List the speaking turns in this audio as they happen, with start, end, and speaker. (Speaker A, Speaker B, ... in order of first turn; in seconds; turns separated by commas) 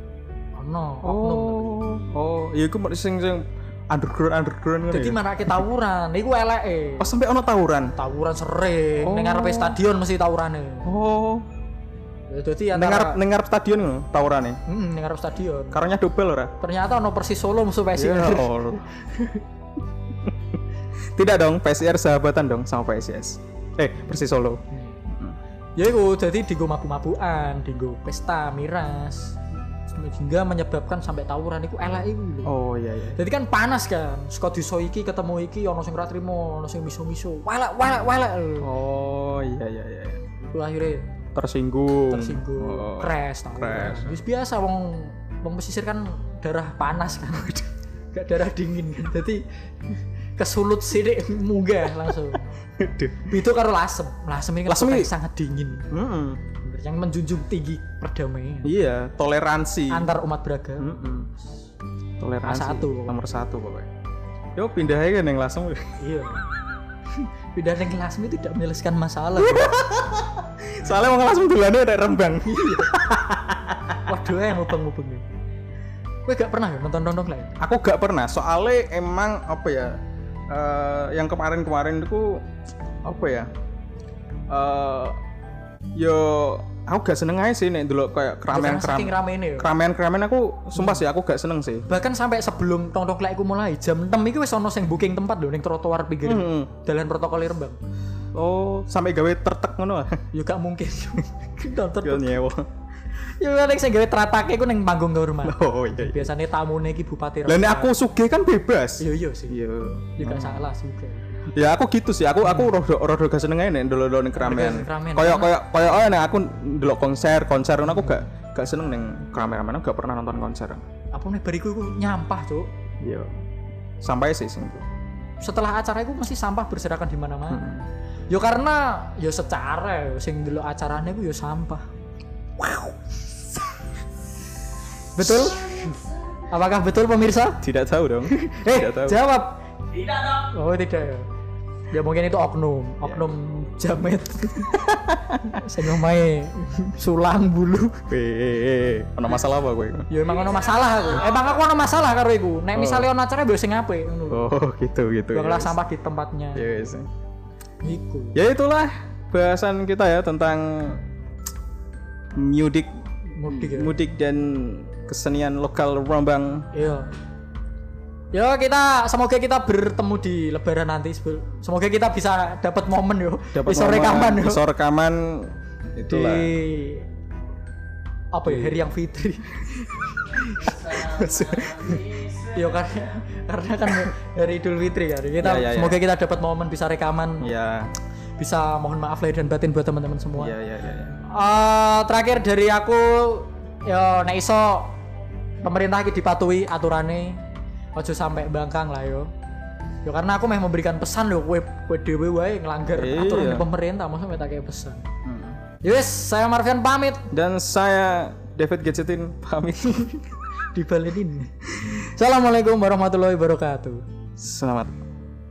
Speaker A: 0.6-1.9, Speaker B: 1.0-5.6, Speaker A: 4.9-7.1, Speaker B: 7.0-7.9, Speaker A: 8.0-10.9, Speaker B: 9.0-9.8, Speaker B: 10.8-11.5, Speaker A: 12.3-13.2, Speaker B: 12.7-14.6, Speaker A: 14.7-15.8, Speaker B: 15.7-16.5, Speaker A: 16.6-19.4, Speaker B: 17.9-18.9, Speaker B: 21.2-24.6, Speaker A: 25.8-29.4, Speaker A: 29.9-32.5, Speaker B: 32.5-33.2, Speaker A: 33.1-38.7, Speaker B: 38.6-40.2, Speaker A: 40.4-41.1, Speaker B: 41.4-44.2, Speaker A: 42.1-52.5, Speaker B: 47.4-47.6, Speaker B: 52.8-53.3, Speaker A: 53.2-55.9, Speaker B: 54.7-55.1, Speaker B: 55.9-56.4, Speaker A: 56.6-58.7, Speaker B: 58.6-60.1, Speaker A: 59.9-61.1, Speaker B: 60.8-61.3, Speaker B: 62.2-63.9, Speaker A: 62.4-63.2, Speaker B: 64.6-65.9, Speaker A: 66.0-66.4, Speaker A: 67.1-69.8, Speaker B: 69.4-74.0, Speaker A: 72.4-72.9, Speaker A: 74.0-75.2, Speaker A: 76.3-77.5, Speaker B: 77.6-82.5, Speaker B: 83.0-83.5, Speaker B: 84.5-85.2, Speaker B: 86.0-91.9, Speaker A: 88.5-89.7, Speaker A: 90.8-91.0, Speaker A: 91.9-97.8, Speaker B: 96.2-96.7, Speaker B: 98.3-100.2, Speaker A: 100.3-102.5, Speaker B: 102.0-102.7, Speaker A: 103.4-107.9, Speaker B: 105.4-106.3, Speaker B: 107.5-110.6, Speaker A: 109.0-109.6, Speaker A: 110.2-111.3, Speaker B: 111.5-120.9, Speaker A: 112.5-112.7, Speaker A: 114.4-115.5, Speaker A: 117.8-118.3, Speaker A: 121.1-122.7, Speaker B: 123.0-123.3, Speaker B: 124.0-124.8, Speaker A: 125.4-127.7, Speaker B: 127.5-127.8, Speaker A: 128.3-131.8, Speaker A: 132.6-132.9, Speaker A: 135.2-137.6, Speaker B: 135.2-136.0, Speaker B: 137.6-139.2, Speaker A: 138.3-141.3, Speaker A: 141.9-144.8, Speaker B: 144.7-145.7, Speaker A: 145.5-148.1, Speaker B: 148.1-150.1, Speaker A: 150.1-154.5, Speaker B: 152.7-153.1, Speaker B: 154.3-155.8, Speaker A: 155.3-156.9, Speaker B: 156.6-157.1, Speaker A: 157.8-158.4, Speaker B: 158.3-161.0, Speaker B: 162.3-162.9, Speaker A: 163.4-163.9, Speaker B: 163.4-166.7, Speaker A: 166.7-167.1, Speaker A: 168.3-174.6, Speaker B: 173.5-176.5, Speaker A: 176.1-177.1, Speaker A: 178.3-187.5, Speaker B: 178.5-178.8, Speaker B: 180.6-182.4, Speaker B: 185.4-186.0, Speaker B: 187.4-187.9, Speaker A: 188.4-190.5, Speaker B: 190.4-191.2, Speaker A: 191.2-194.9, Speaker A: 195.6-197.4, Speaker A: 198.0-199.3, Speaker A: 200.1-205.1, Speaker B: 203.0-203.7, Speaker B: 205.2-205.6, Speaker A: 205.8-207.3, Speaker B: 207.3-210.2, Speaker A: 210.7-214.0, Speaker B: 214.4-215.0